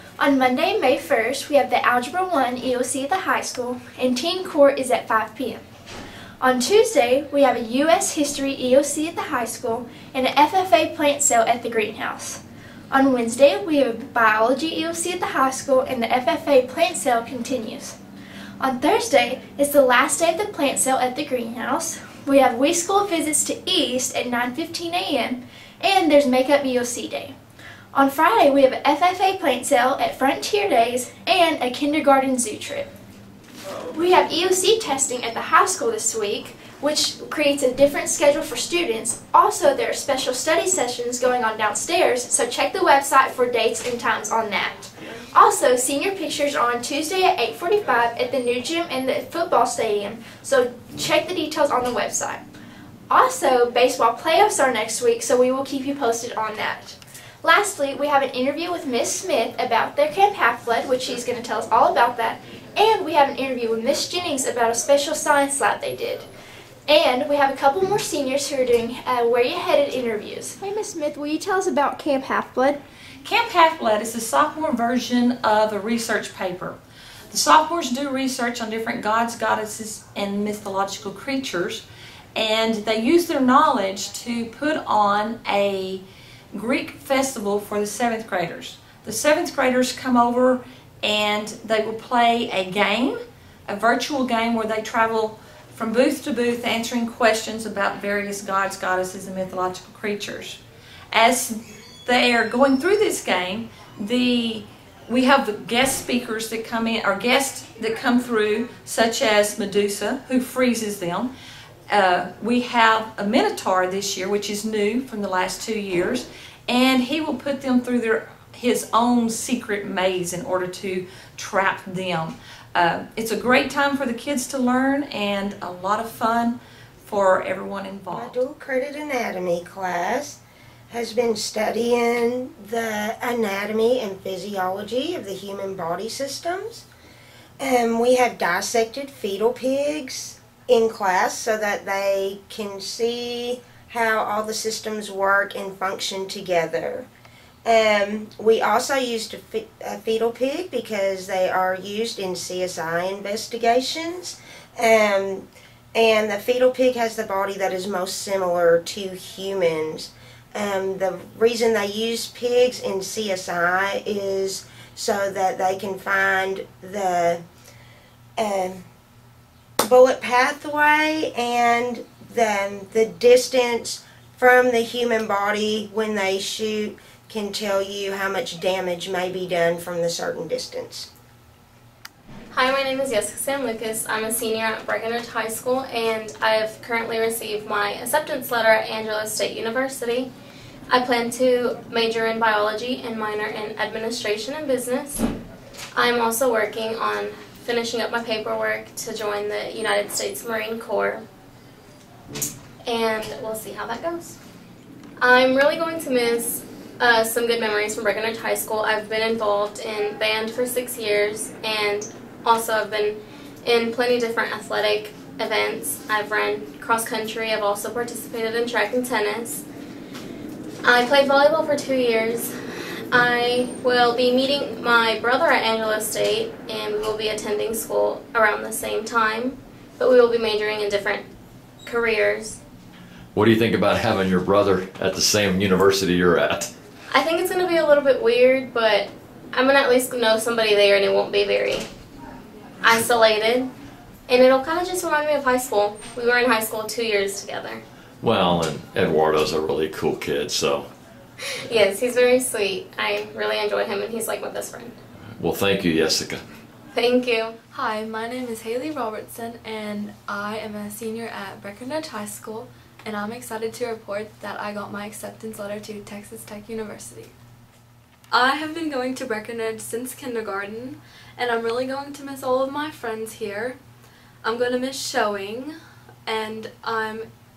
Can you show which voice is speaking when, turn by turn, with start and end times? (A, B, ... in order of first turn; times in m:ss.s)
0:00.2-0:05.6 A
0:06.4-0:12.4 A
0:12.9-0:18.0 A
0:18.6-0:27.4 A
0:27.9-0:32.9 A
0:33.9-0:52.4 A
0:53.1-1:06.2 A
1:06.9-1:12.8 A
1:13.2-1:16.8 B
1:17.3-1:21.8 B
1:22.4-1:26.0 B
1:26.5-1:33.2 B
1:33.7-1:40.6 B
1:41.1-1:51.3 B
1:51.9-2:08.4 B
2:08.1-2:10.4 C
2:10.9-2:16.9 C
2:17.6-2:27.1 C
2:27.6-2:47.4 C
2:48.4-2:48.8 C
2:49.8-3:01.1 C
3:02.5-3:10.3 D
3:10.9-3:15.2 D
3:16.0-3:21.2 D
3:22.9-3:24.4 D
3:25.2-3:39.6 D
3:40.8-3:42.5 D
3:43.1-3:51.3 D
3:51.9-3:52.6 D
3:53.3-3:56.7 E
3:57.1-4:01.9 D
4:02.8-4:03.7 D
4:04.3-4:07.8 D
4:08.2-4:10.9 E
4:11.7-4:15.0 D
4:15.4-4:16.4 E
4:16.9-4:17.6 D
4:17.7-4:27.3 F
4:28.3-4:33.8 F
4:34.4-4:35.8 F
4:36.3-4:37.3 F